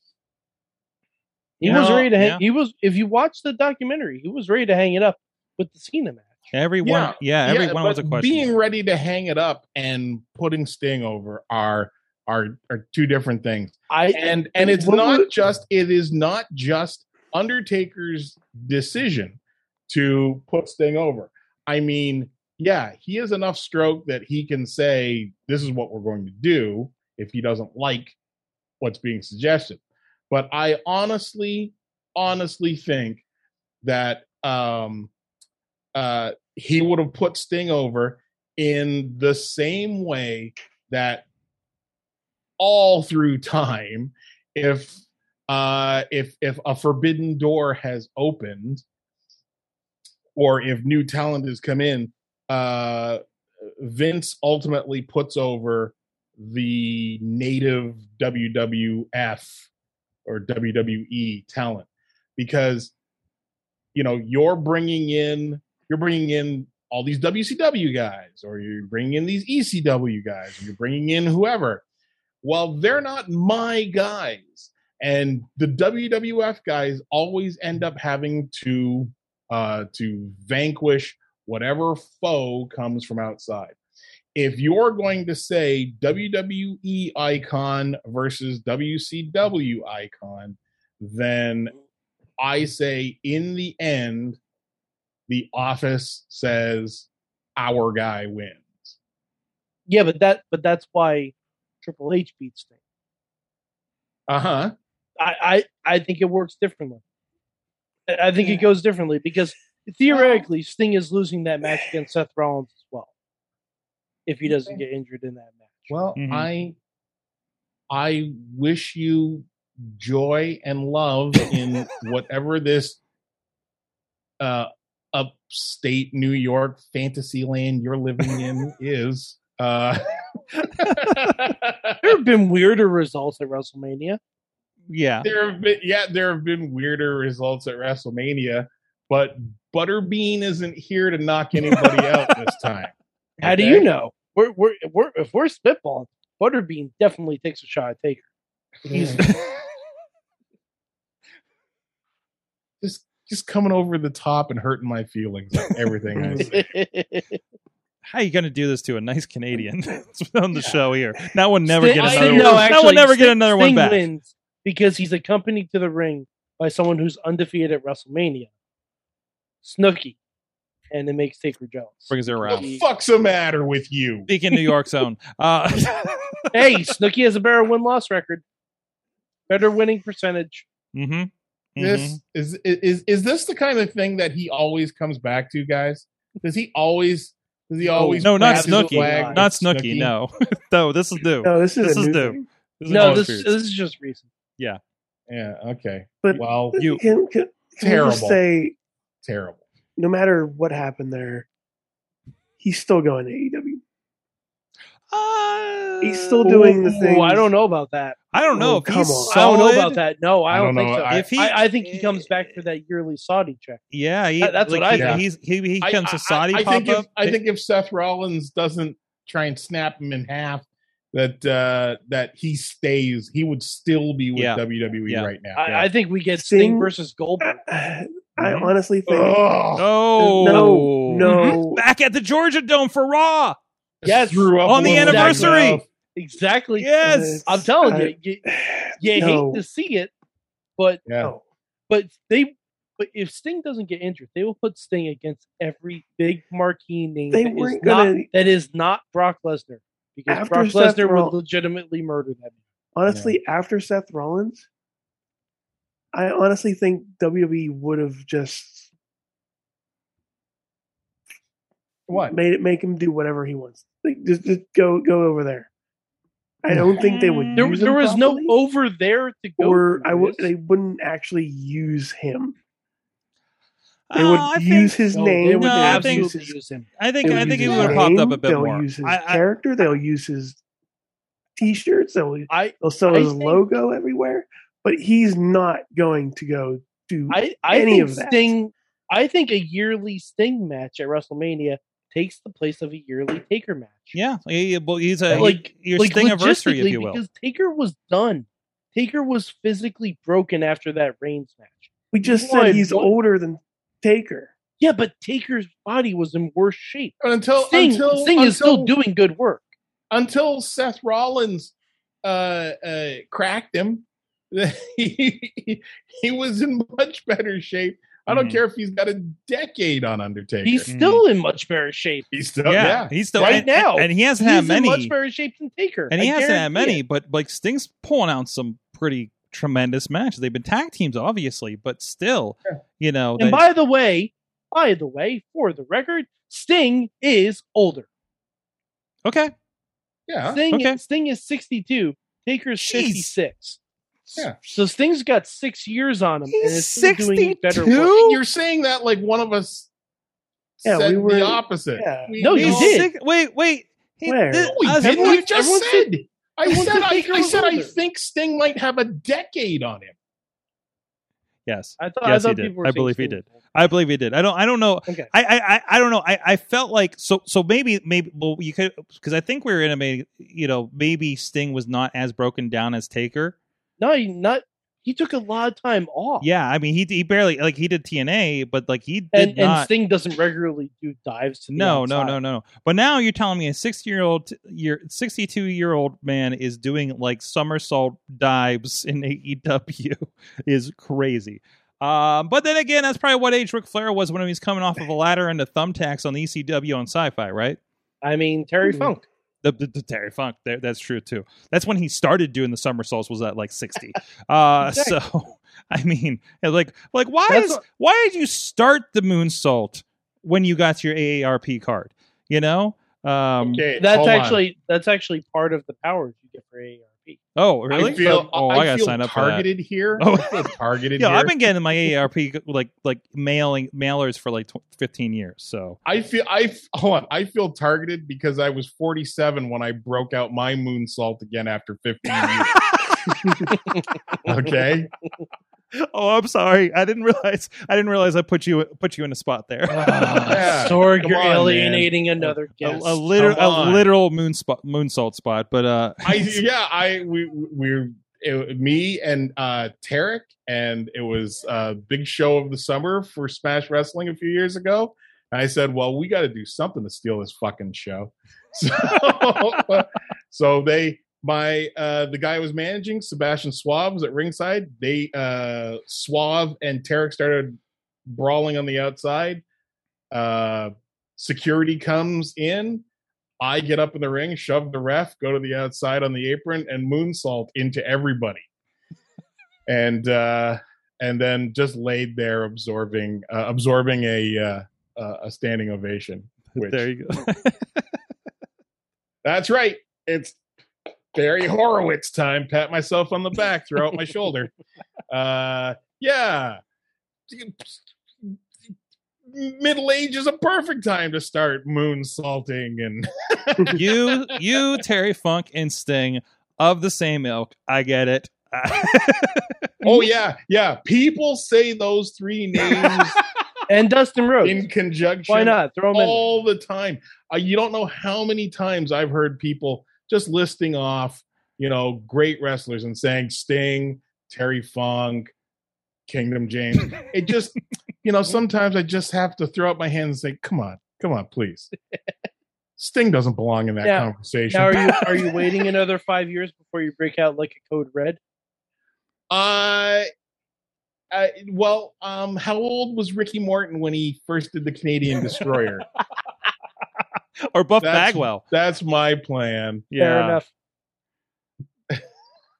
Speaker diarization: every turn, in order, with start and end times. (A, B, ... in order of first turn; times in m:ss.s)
0:01.6-0:06.3 A
0:01.6-0:02.4 B
0:06.5-0:08.5 B
0:06.8-0:28.2 C
0:13.9-0:14.3 A
0:14.6-0:15.3 D
0:28.8-0:33.2 C
0:33.8-0:35.1 C
0:35.9-0:41.2 C
0:42.6-0:48.8 C
0:50.3-0:53.2 C
0:53.8-0:59.7 C
1:00.2-1:02.9 C
1:03.9-1:11.8 C
1:12.4-1:23.7 C
1:24.3-1:31.7 C
1:32.4-1:34.4 C
1:35.3-1:39.0 C
1:39.9-1:42.7 A
1:44.3-1:44.7 C
1:45.2-1:47.0 A
1:48.1-1:53.1 A
1:54.3-1:55.9 A
1:55.9-1:56.8 C
1:56.2-1:56.5 B
1:57.9-2:03.0 C
2:04.4-2:12.1 C
2:10.8-2:11.1 B
2:12.0-2:14.2 A
2:14.9-2:15.3 B
2:15.2-2:23.8 C
2:23.4-2:28.2 A
2:28.8-2:29.2 C
2:28.9-2:29.2 A
2:32.8-2:36.6 C
2:36.1-2:36.5 D
2:36.4-2:37.4 A
2:38.1-2:44.0 B
2:40.5-2:40.8 C
2:41.7-2:48.5 A
2:41.9-2:42.7 C
2:49.6-2:50.2 A
2:50.9-2:52.8 A
2:52.1-2:52.7 B
2:52.4-2:54.3 C
2:54.3-2:56.5 B
2:56.5-2:58.4 A
2:59.5-3:00.6 A
3:00.9-3:02.2 B
3:01.8-3:10.1 C
3:07.8-3:08.2 D
3:08.0-3:09.4 A
3:08.2-3:13.6 B
3:11.4-3:12.4 D
3:12.9-3:14.3 A
3:12.9-3:13.3 C
3:15.3-3:16.8 C
3:16.2-3:18.7 D
3:16.8-3:17.0 B
3:17.8-3:18.4 C
3:19.2-3:19.6 C
3:20.0-3:21.5 D
3:22.6-3:23.8 D
3:25.1-3:26.5 B
3:26.0-3:27.4 D
3:26.5-3:28.2 A
3:26.8-3:27.1 C
3:28.3-3:30.0 B
3:28.5-3:29.4 D
3:29.3-3:33.8 A
3:30.5-3:31.3 C
3:31.1-3:32.3 B
3:33.9-3:37.4 B
3:34.4-3:35.2 A
3:34.9-3:35.2 C
3:35.8-3:45.9 C
3:44.4-3:45.3 B
3:45.5-3:47.6 A
3:46.4-3:49.4 D
3:48.4-3:48.7 B
3:49.1-3:49.9 C
3:49.8-3:53.6 B
3:50.2-3:51.8 D
3:50.5-3:51.6 A
3:54.0-3:55.8 C
3:54.0-3:58.4 A
3:54.6-3:55.8 B
3:56.8-3:57.4 B
3:57.0-3:59.6 D
3:59.0-4:00.1 A
4:00.8-4:01.0 A
4:01.0-4:01.3 C
4:01.2-4:01.4 D
4:01.9-4:12.6 A
4:07.3-4:08.3 D
4:10.3-4:11.4 D
4:12.9-4:14.7 D
4:13.1-4:13.4 C
4:16.1-4:18.9 D
4:22.1-4:22.4 C
4:22.1-4:25.7 D
4:26.6-4:28.6 D
4:26.8-4:27.8 B
4:27.6-4:30.5 A
4:29.6-4:32.5 D
4:34.1-4:36.3 B
4:34.1-4:36.6 D
4:35.1-4:37.9 A
4:37.0-4:39.4 B
4:37.2-4:40.6 D
4:37.7-4:38.0 C
4:41.6-4:48.5 D
4:42.5-4:43.6 A
4:47.3-4:54.2 A
4:54.1-4:57.2 B
4:55.3-5:03.1 A
5:02.1-5:04.5 D
5:04.8-5:09.6 A
5:07.2-5:08.9 C
5:10.1-5:11.7 C
5:12.2-5:20.9 C
5:18.3-5:18.6 B
5:20.6-5:22.2 A
5:20.9-5:21.2 B
5:22.3-5:23.6 C
5:22.7-5:25.1 B
5:23.4-5:27.0 A
5:26.1-5:33.6 B
5:33.4-5:38.1 A
5:39.2-5:39.5 B
5:40.3-5:40.6 C
5:40.5-5:43.8 A
5:40.7-5:41.0 B
5:42.8-5:43.3 B
5:44.6-5:48.2 A
5:46.5-5:48.4 B
5:48.0-5:49.9 C
5:50.8-5:53.0 C
5:50.8-5:52.3 D
5:52.4-5:53.1 A
5:52.6-5:55.5 B
5:54.2-5:54.8 D
5:54.7-6:00.1 C
5:55.0-5:56.1 A
5:56.7-5:57.9 A
6:01.7-6:13.6 B
6:02.0-6:03.6 A
6:14.0-6:16.4 A
6:16.4-6:19.9 B
6:19.3-6:22.4 A
6:21.7-6:37.8 B
6:38.2-6:39.3 A
6:38.8-6:39.1 D
6:39.6-6:53.8 B
6:44.8-6:45.2 A
6:47.5-6:47.8 A
6:53.6-6:54.6 C
6:54.0-6:57.4 A
6:57.6-6:59.7 B
6:57.9-6:58.5 A
6:57.9-7:01.5 C
7:00.2-7:06.0 B
7:06.0-7:12.8 C
7:13.7-7:14.0 A
7:14.4-7:15.1 C
7:16.1-7:20.8 B
7:19.9-7:23.3 A
7:20.5-7:22.5 C
7:22.8-7:26.6 B
7:23.3-7:24.1 C
7:26.2-7:49.6 C
7:50.3-7:53.0 C
7:53.6-7:58.6 C
7:59.9-8:07.0 C
8:06.7-8:08.0 B
8:09.4-8:10.6 C
8:11.3-8:14.7 C
8:15.3-8:16.8 C
8:17.5-8:18.6 C
8:19.5-8:24.3 C
8:23.9-8:29.7 B
8:30.0-8:33.4 C
8:32.9-8:33.2 B
8:33.9-8:34.8 A
8:34.6-8:45.5 C
8:35.5-8:36.4 A
8:46.3-8:51.9 C
8:53.0-8:55.5 C
8:54.0-8:58.4 A
8:59.5-9:00.3 C
9:01.3-9:06.0 C
9:07.7-9:08.6 B
9:08.0-9:10.1 C
9:10.1-9:10.6 B
9:10.2-9:10.7 A